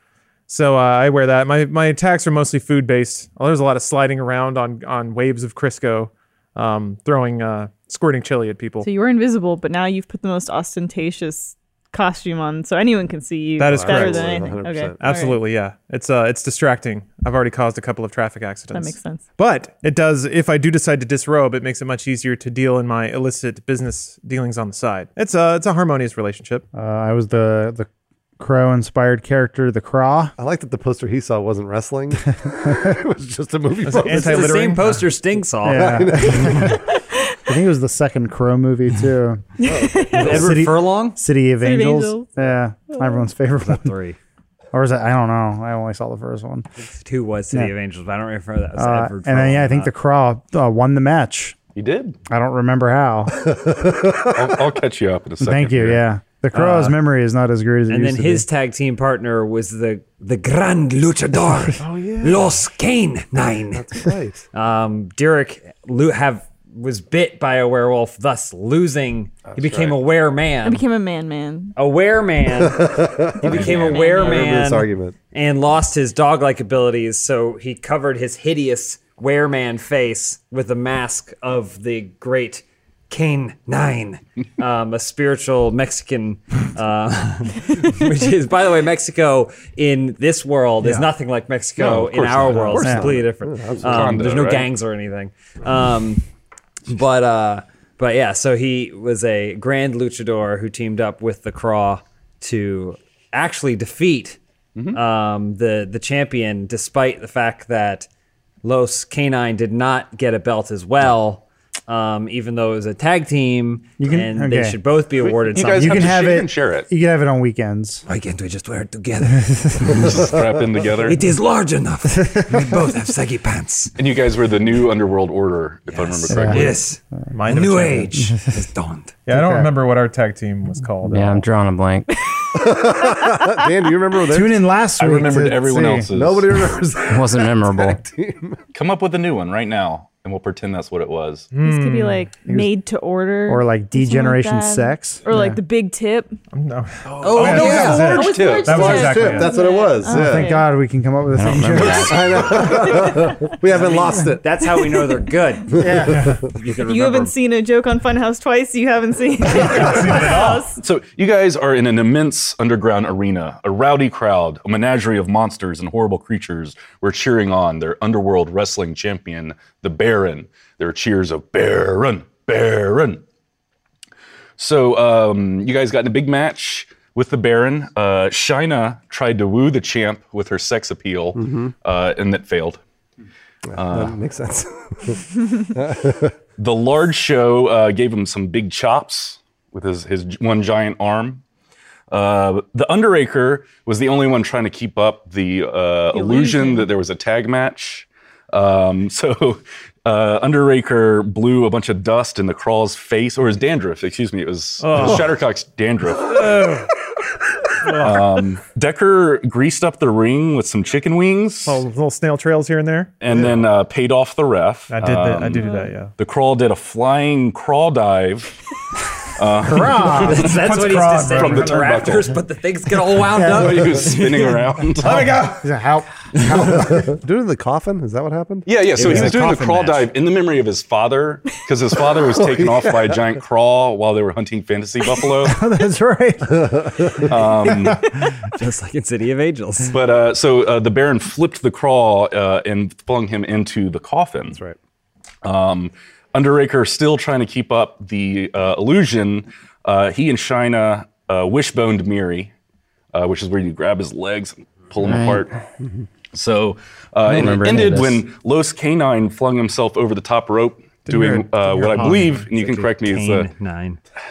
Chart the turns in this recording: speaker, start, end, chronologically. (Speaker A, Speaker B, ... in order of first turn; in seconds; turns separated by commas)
Speaker A: 0.5-8.9, Speaker B: 8.8-15.4, Speaker A: 13.6-26.7, Speaker C: 13.7-15.0, Speaker B: 18.7-19.2, Speaker D: 26.7-27.9, Speaker D: 28.4-30.4, Speaker C: 30.4-34.6, Speaker D: 32.5-33.0, Speaker A: 33.9-35.1, Speaker E: 34.0-36.3, Speaker D: 35.6-36.8, Speaker C: 35.6-36.8, Speaker B: 36.9-37.3, Speaker D: 37.5-39.5, Speaker B: 39.6-40.5, Speaker C: 39.6-40.2, Speaker E: 40.1-41.2, Speaker D: 40.2-43.9, Speaker B: 41.6-42.3, Speaker B: 42.9-43.2, Speaker E: 43.6-44.2, Speaker D: 44.7-46.6, Speaker E: 47.0-49.9, Speaker D: 48.8-51.6, Speaker F: 51.8-52.2, Speaker D: 52.3-53.4, Speaker C: 53.4-54.6, Speaker F: 54.3-56.0, Speaker D: 55.4-58.5, Speaker E: 56.5-57.0, Speaker E: 57.9-64.0, Speaker C: 61.8-62.5, Speaker C: 63.7-64.5, Speaker E: 64.5-70.8, Speaker C: 69.5-70.0, Speaker B: 70.6-71.8, Speaker E: 71.8-96.3, Speaker C: 72.5-75.2, Speaker B: 73.5-74.6, Speaker F: 73.5-74.0, Speaker A: 90.8-91.1, Speaker F: 91.8-93.1, Speaker C: 92.8-94.3, Speaker D: 92.8-93.1, Speaker F: 93.8-94.7, Speaker E: 96.9-104.4, Speaker E: 104.9-108.1, Speaker E: 108.6-116.1, Speaker D: 114.0-114.8, Speaker F: 115.2-116.9, Speaker D: 115.6-118.0, Speaker E: 118.1-120.1, Speaker D: 119.3-120.1, Speaker F: 119.9-121.2, Speaker E: 121.0-124.0, Speaker D: 122.3-122.8, Speaker F: 124.0-126.8, Speaker E: 125.9-129.2, Speaker D: 126.3-127.3, Speaker A: 127.3-128.2, Speaker A: 129.3-131.4, Speaker D: 129.3-129.7, Speaker G: 131.1-132.1, Speaker B: 132.1-133.4, Speaker C: 132.6-134.6, Speaker D: 134.3-136.1, Speaker F: 135.0-136.8, Speaker C: 136.1-138.6, Speaker G: 137.1-138.0, Speaker F: 138.7-141.5, Speaker A: 141.5-142.3, Speaker B: 141.6-146.4, Speaker D: 143.5-145.6, Speaker A: 146.5-149.6, Speaker F: 147.1-149.2, Speaker E: 147.2-148.2, Speaker B: 147.7-150.7, Speaker C: 148.7-150.6, Speaker D: 150.1-152.2, Speaker G: 151.3-152.6, Speaker C: 151.9-154.4, Speaker F: 152.0-152.7, Speaker B: 153.1-153.3, Speaker E: 153.7-157.4, Speaker C: 155.8-156.5, Speaker D: 155.8-156.4, Speaker B: 156.8-160.8, Speaker A: 159.6-160.6, Speaker F: 160.8-173.2, Speaker F: 174.6-182.8, Speaker C: 181.3-181.7, Speaker F: 183.7-184.2, Speaker C: 183.7-186.3, Speaker F: 186.6-191.4, Speaker F: 192.1-206.9, Speaker B: 196.1-196.9, Speaker A: 204.8-205.4, Speaker A: 206.3-206.9, Speaker A: 207.8-208.4, Speaker F: 207.8-211.8, Speaker A: 211.7-213.2, Speaker F: 213.2-215.6, Speaker A: 214.9-216.1, Speaker B: 215.5-215.9, Speaker F: 216.2-218.6, Speaker F: 219.3-220.6, Speaker D: 219.6-220.6, Speaker E: 220.2-224.7, Speaker A: 220.3-222.2, Speaker F: 221.3-222.3, Speaker D: 223.4-224.1, Speaker F: 223.4-225.4, Speaker D: 225.0-227.2, Speaker A: 225.2-225.6, Speaker C: 226.5-228.7, Speaker F: 228.7-235.6, Speaker E: 228.9-230.1, Speaker C: 232.2-233.2, Speaker D: 235.4-237.1, Speaker C: 236.5-237.2, Speaker F: 237.2-238.1, Speaker D: 237.7-238.0, Speaker E: 238.4-240.0, Speaker F: 239.9-244.6, Speaker C: 244.5-244.8, Speaker F: 245.4-252.5, Speaker F: 253.1-255.5, Speaker G: 255.0-255.5, Speaker F: 256.3-263.5, Speaker G: 257.2-258.3, Speaker A: 261.1-262.5, Speaker E: 261.9-264.0